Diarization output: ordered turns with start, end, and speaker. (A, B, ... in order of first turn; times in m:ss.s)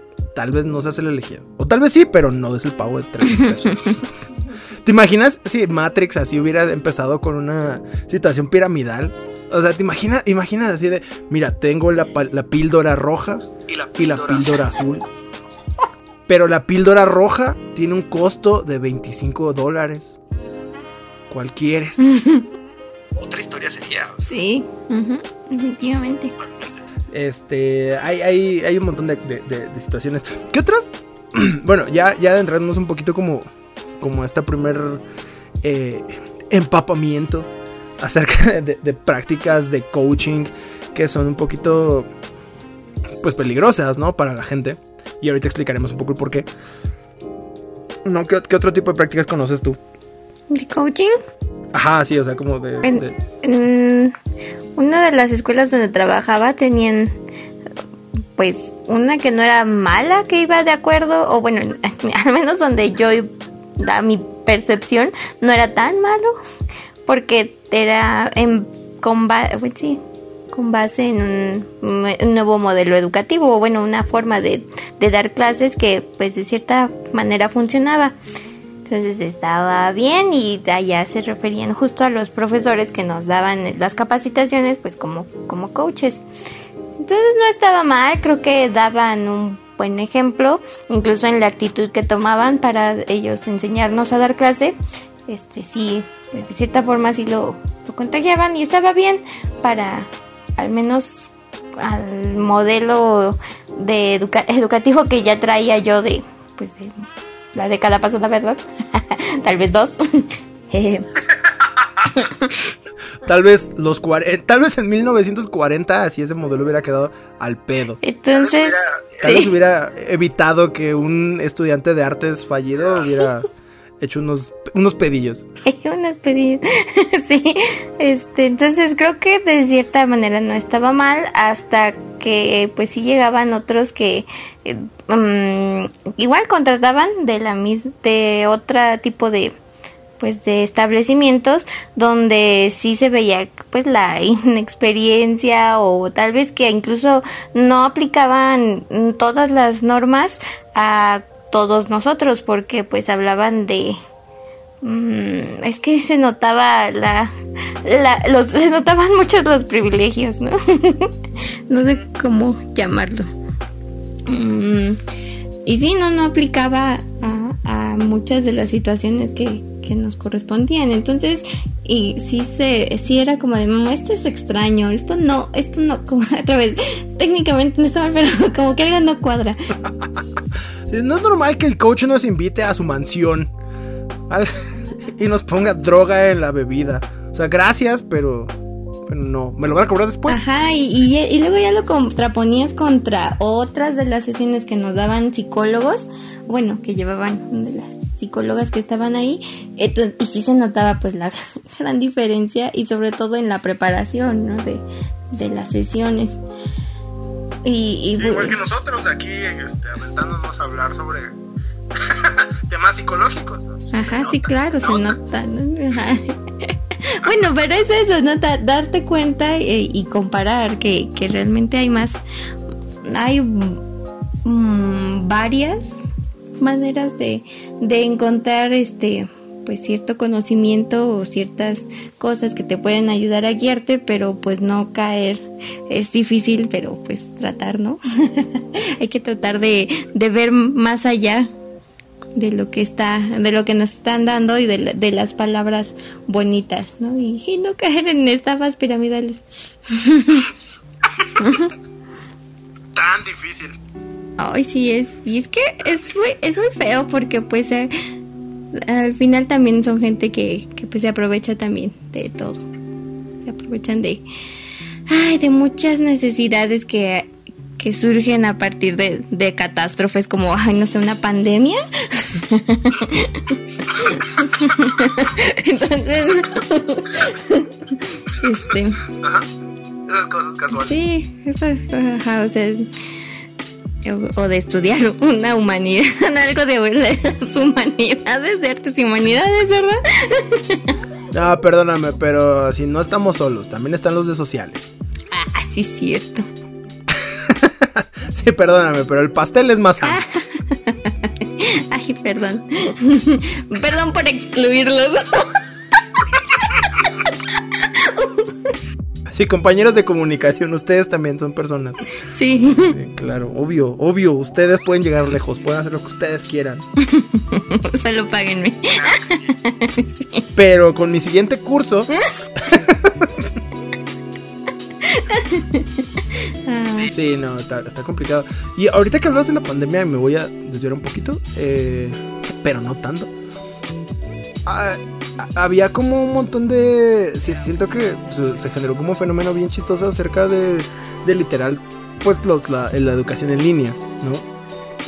0:00.3-0:04.1 A
0:04.8-0:15.1 A
0:13.7-0:14.7 B
0:16.3-0:20.2 A
0:21.3-0:22.0 A
0:22.0-0:22.5 C
0:23.2-0:24.2 B
0:24.2-0:26.3 C
0:26.4-0:26.7 B
0:27.1-0:33.5 A
0:34.0-0:35.0 A
0:35.6-0:42.1 A
0:43.2-0:46.5 A
0:48.0-0:49.8 A
0:50.5-0:51.2 C
0:51.7-0:53.2 A
0:52.8-0:54.2 C
0:54.8-0:57.2 C
0:58.4-1:06.4 C
1:07.1-1:10.0 C
1:10.5-1:18.2 C
1:18.9-1:26.2 C
1:27.0-1:34.8 C
1:35.3-1:51.1 C
1:52.1-1:52.5 C
1:53.2-1:58.0 A
1:58.0-1:59.5 C
1:58.3-1:59.4 B
1:59.2-2:03.5 A
2:04.0-2:05.5 A
2:05.6-2:19.5 C
2:20.2-2:34.0 C
2:34.8-2:41.1 C
2:41.7-2:43.3 C
2:44.3-2:45.0 C
2:45.7-2:59.8 C
3:00.9-3:03.5 A
3:04.3-3:08.5 A
3:09.1-3:10.4 A
3:10.3-3:26.4 C
3:27.6-3:28.6 C
3:28.1-3:31.4 B
3:32.0-3:35.1 B
3:33.9-3:42.2 C
3:43.0-3:43.8 C
3:44.4-3:46.0 C
3:46.6-4:01.5 C
4:02.4-4:10.5 C
4:11.4-4:11.7 C
4:12.9-4:13.8 B
4:14.4-4:17.9 C
4:18.7-4:22.7 C
4:23.4-4:24.2 C
4:25.1-4:39.1 C
4:39.1-4:39.5 B
4:40.1-4:40.9 B
4:40.7-4:42.9 C
4:44.0-4:51.0 C
4:51.3-4:54.9 A
4:55.3-4:56.5 C
4:57.1-5:00.2 A
5:00.0-5:05.6 C
5:06.1-5:08.7 C
5:09.3-5:12.0 A
5:12.2-5:13.0 C
5:12.8-5:16.8 A
5:17.0-5:20.5 C
5:20.6-5:23.5 A
5:25.0-5:27.1 C
5:27.1-5:33.3 A
5:34.7-5:44.5 A